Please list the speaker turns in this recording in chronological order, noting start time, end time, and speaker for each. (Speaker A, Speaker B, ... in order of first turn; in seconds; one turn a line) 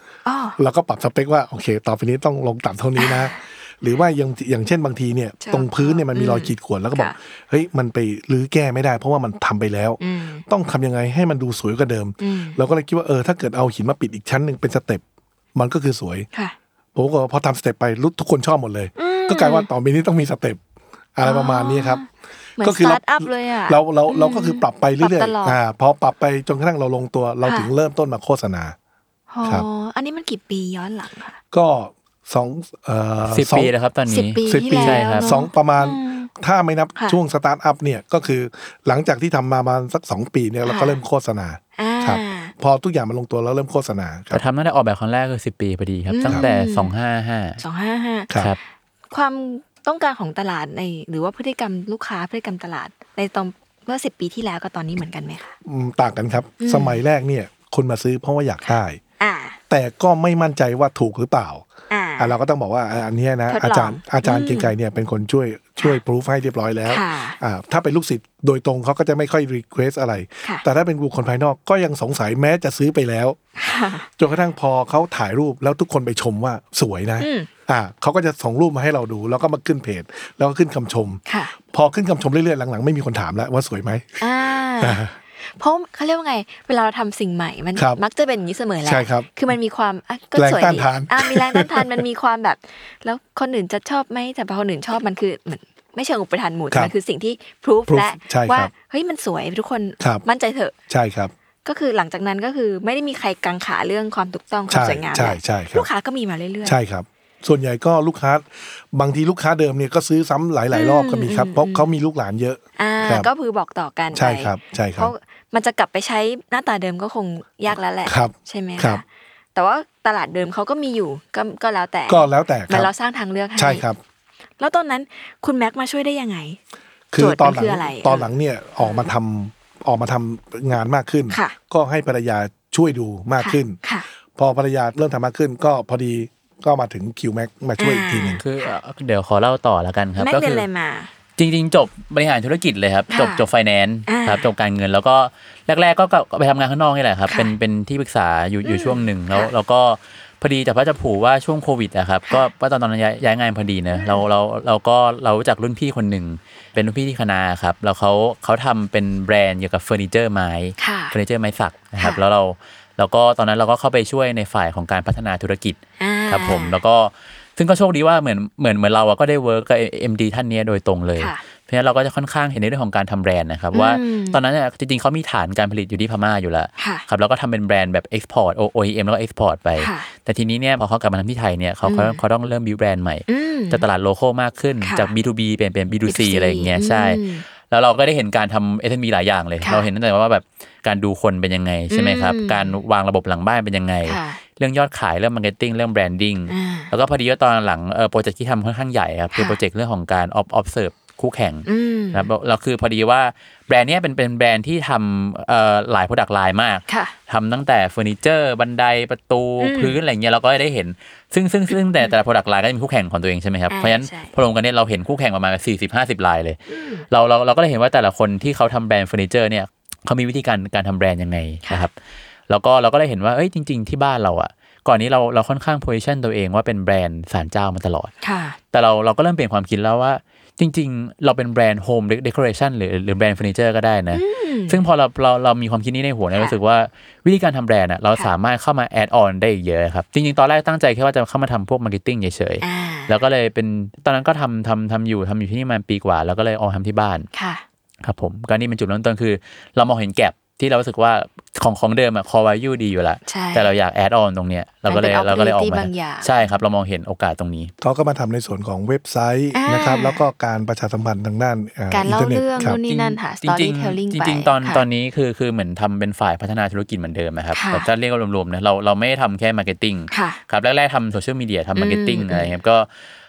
Speaker A: 0.3-0.6
Speaker B: 0.6-15.0
Speaker A: 3.0-3.3
Speaker A: 5.4-7.2
Speaker A: 10.0-10.4
Speaker A: 12.2-12.6
Speaker B: 15.5-16.3
Speaker B: 16.9-20.6
Speaker A: 19.0-19.7
Speaker B: 21.2-22.0
Speaker A: 21.2-22.1
Speaker A: 22.6-25.6
Speaker B: 22.6-28.8
Speaker A: 27.4-27.7
Speaker A: 29.3-31.4
Speaker B: 31.5-33.7
Speaker C: 33.3-35.3
Speaker A: 34.1-36.3
Speaker B: 34.5-44.4
Speaker A: 40.6-41.0
Speaker A: 41.8-42.5
Speaker C: 44.3-47.6
Speaker A: 46.1-46.9
Speaker A: 47.6-48.5
Speaker A: 49.1-55.5
Speaker B: 55.6-59.0
Speaker A: 56.6-57.0
Speaker A: 58.7-59.6
Speaker B: 59.7-61.7
Speaker A: 61.9-62.3
Speaker B: 62.2-73.4
Speaker A: 63.5-64.7
Speaker A: 66.9-67.4
Speaker A: 73.6-74.1
Speaker B: 74.2-84.3
Speaker A: 77.2-77.5
Speaker A: 81.3-81.5
Speaker A: 84.2-100.8
Speaker B: 84.8-85.1
Speaker B: 87.8-88.0
Speaker B: 88.8-89.3
Speaker B: 90.3-92.1
Speaker B: 97.9-98.7
Speaker B: 100.0-100.2
Speaker B: 100.9-101.3
Speaker A: 101.7-106.8
Speaker B: 104.7-105.9
Speaker B: 106.6-113.3
Speaker A: 110.7-111.8
Speaker A: 112.8-119.0
Speaker B: 114.1-115.1
Speaker B: 118.1-119.0
Speaker A: 119.5-123.8
Speaker B: 122.1-122.9
Speaker B: 123.6-124.0
Speaker A: 124.6-126.6
Speaker B: 127.1-133.8
Speaker A: 127.2-128.3
Speaker A: 128.8-129.1
Speaker A: 131.3-131.6
Speaker A: 133.4-134.1
Speaker B: 134.4-138.4
Speaker A: 137.8-138.4
Speaker C: 138.4-140.7
Speaker A: 140.2-141.1
Speaker C: 141.4-221.9
Speaker A: 143.1-143.4
Speaker A: 144.1-144.4
Speaker A: 148.6-149.5
Speaker A: 153.9-154.2
Speaker A: 160.8-161.2
Speaker A: 166.0-166.8
Speaker A: 173.7-174.4
Speaker A: 176.8-177.1
Speaker A: 179.8-180.1
Speaker A: 181.9-182.2
Speaker A: 183.3-183.8
Speaker A: 184.8-185.1
Speaker A: 186.1-187.4
Speaker A: 191.9-192.8
Speaker A: 194.1-194.4
Speaker A: 196.5-196.9
Speaker A: 201.7-202.3
Speaker A: 206.9-207.2
Speaker A: 209.6-209.9
Speaker A: 213.7-214.3
Speaker A: 216.7-217.1
Speaker C: 222.5-228.1
Speaker A: 228.2-228.6
Speaker C: 228.7-247.3
Speaker A: 234.1-234.8
Speaker A: 242.6-243.1
Speaker A: 247.3-247.6
Speaker C: 248.0-257.7
Speaker A: 253.3-253.7
Speaker A: 254.9-256.3
Speaker B: 257.8-262.8
Speaker A: 259.5-260.2
Speaker A: 261.9-264.8
Speaker C: 262.6-272.9
Speaker A: 267.5-267.9
Speaker A: 270.1-270.4
Speaker A: 271.8-272.6